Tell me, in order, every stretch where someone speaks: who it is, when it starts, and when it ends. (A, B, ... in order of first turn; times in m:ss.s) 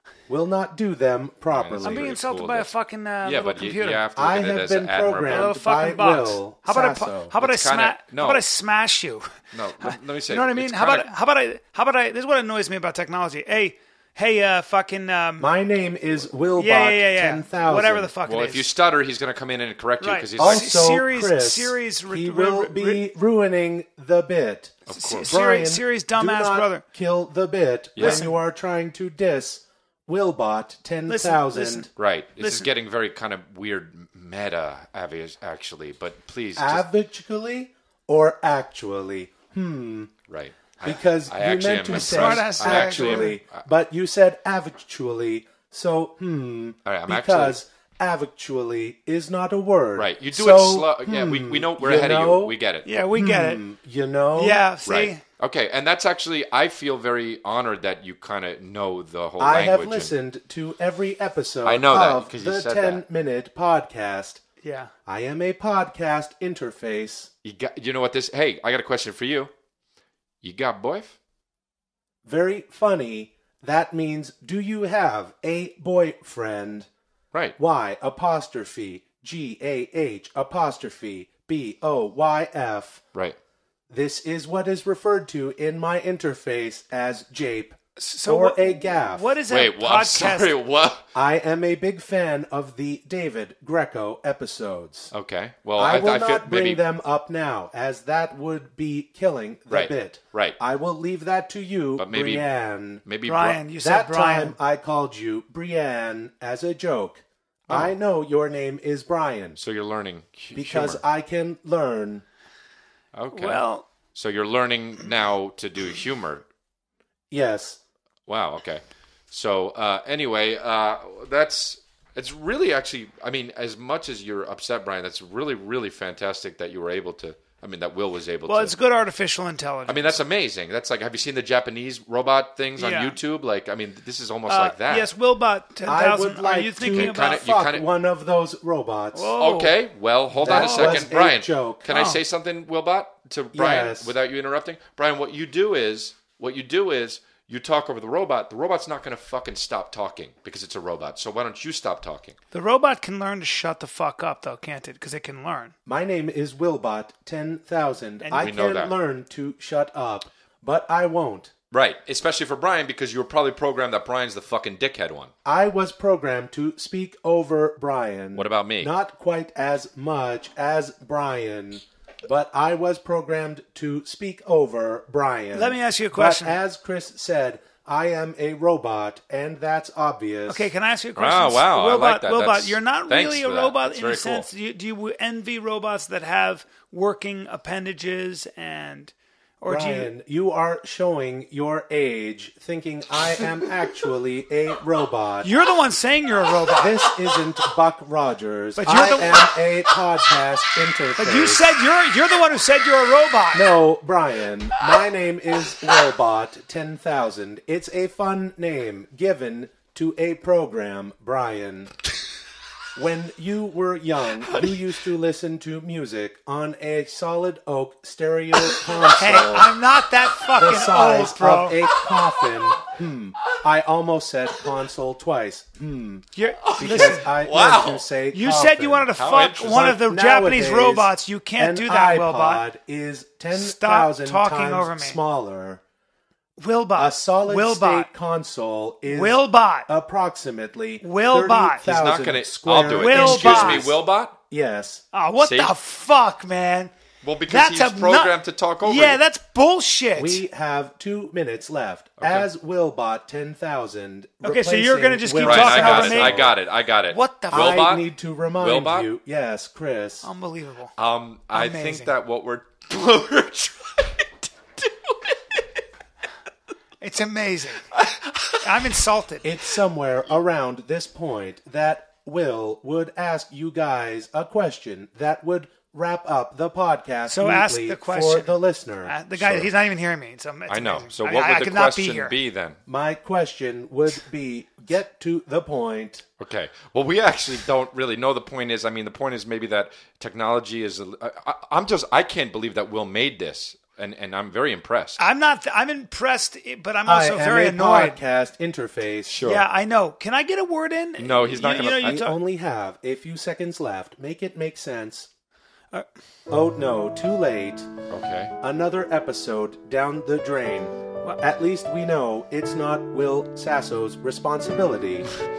0:00.3-0:02.2 A
0:01.5-0:05.5 B
0:01.8-0:04.0 C
0:04.2-0:07.3 A
0:05.2-0:15.5 C
0:07.4-0:08.4 B
0:09.5-0:11.1 B
0:15.4-0:18.1 A
0:16.6-0:18.7 C
0:18.2-0:21.0 B
0:20.0-0:23.1 C
0:20.4-0:24.8 A
0:24.9-0:25.4 B
0:24.9-0:26.8 C
0:25.3-0:31.9 A
0:28.0-0:28.2 B
0:28.0-0:28.4 C
0:31.1-0:31.9 C
0:32.0-0:36.9 B
0:32.4-0:32.7 C
0:36.6-0:40.1 A
0:40.3-0:43.6 B
0:40.8-0:52.6 A
0:41.9-0:43.4 C
0:46.8-0:47.6 B
0:50.0-0:53.0 B
0:52.8-0:53.6 C
0:53.2-0:54.6 A
0:54.4-0:55.2 C
0:54.8-1:00.1 B
0:59.4-1:04.4 A
1:01.6-1:03.0 B
1:04.6-1:04.9 C
1:05.1-1:07.3 A
1:07.4-1:09.5 B
1:10.4-1:11.2 B
1:12.2-1:16.9 A
1:17.6-1:23.0 A
1:23.9-1:29.4 A
1:28.0-1:30.6 C
1:29.5-1:31.0 B
1:31.1-1:35.1 A
1:35.1-1:36.8 B
1:35.8-1:43.0 A
1:39.7-1:40.6 B
1:42.0-1:42.5 B
1:43.0-1:43.6 B
1:43.2-1:44.6 C
1:43.8-1:49.6 A
1:47.7-1:47.9 B
1:49.6-1:51.0 B
1:50.5-1:52.2 A
1:53.1-1:56.5 B
1:53.3-1:53.8 C
1:57.3-1:57.8 A
1:58.3-2:08.8 B
2:08.5-2:10.2 C
2:09.9-2:15.1 B
2:12.8-2:13.2 C
2:14.5-2:17.5 C
2:15.9-2:19.3 A
2:16.9-2:17.8 B
2:19.1-2:19.8 C
2:19.4-2:32.4 B
2:20.4-2:21.8 A
2:20.4-2:21.1 C
2:21.9-2:22.2 C
2:23.5-2:24.1 A
2:32.5-2:35.8 C
2:35.8-2:41.5 A
2:38.2-2:38.5 C
2:38.3-2:38.9 B
2:41.7-2:45.3 B
2:45.4-3:00.7 A
2:48.3-2:48.9 B
2:55.5-2:56.6 C
3:00.5-3:10.1 C
3:01.2-3:04.5 B
3:09.6-3:15.5 A
3:15.4-3:17.1 C
3:16.8-3:21.7 A
3:18.8-3:19.6 C
3:21.2-3:23.7 C
3:23.5-3:31.9 A
3:33.0-3:39.7 A
3:39.1-3:41.9 C
3:40.5-3:46.3 A
3:46.4-3:47.3 C
3:46.6-3:48.1 B
3:46.8-3:49.1 A
3:48.3-3:52.6 C
3:49.1-3:49.9 B
3:49.6-3:55.8 A
3:53.5-3:55.2 C
3:56.6-3:58.1 C
3:57.0-4:05.0 A
3:59.1-3:59.9 C
4:01.0-4:01.8 C
4:01.8-4:04.4 B
4:03.0-4:03.9 C
4:05.1-4:06.9 C
4:05.4-4:05.7 B
4:07.2-4:09.2 B
4:07.5-4:10.4 C
4:10.2-4:16.5 A
4:12.2-4:12.5 B
4:14.4-4:16.5 C
4:15.4-4:19.1 B
4:17.1-4:17.9 C
4:17.5-4:20.3 A
4:20.2-4:20.9 C
4:21.0-4:25.3 B
4:21.5-4:22.1 C
4:27.0-4:27.9 C
4:28.0-4:28.5 B
4:28.6-4:29.5 C
4:29.4-4:39.7 A
4:37.3-4:42.4 C
4:39.4-4:39.7 B
4:40.7-4:42.8 B
4:42.9-4:46.2 A
4:46.4-4:55.2 B
4:55.2-4:58.2 C
4:57.0-4:59.4 A
4:59.3-4:59.6 B
4:59.4-5:02.4 C
5:01.2-5:02.2 B
5:02.0-5:05.3 A
5:06.5-5:07.9 A
5:08.1-5:08.5 B
5:08.6-5:15.3 A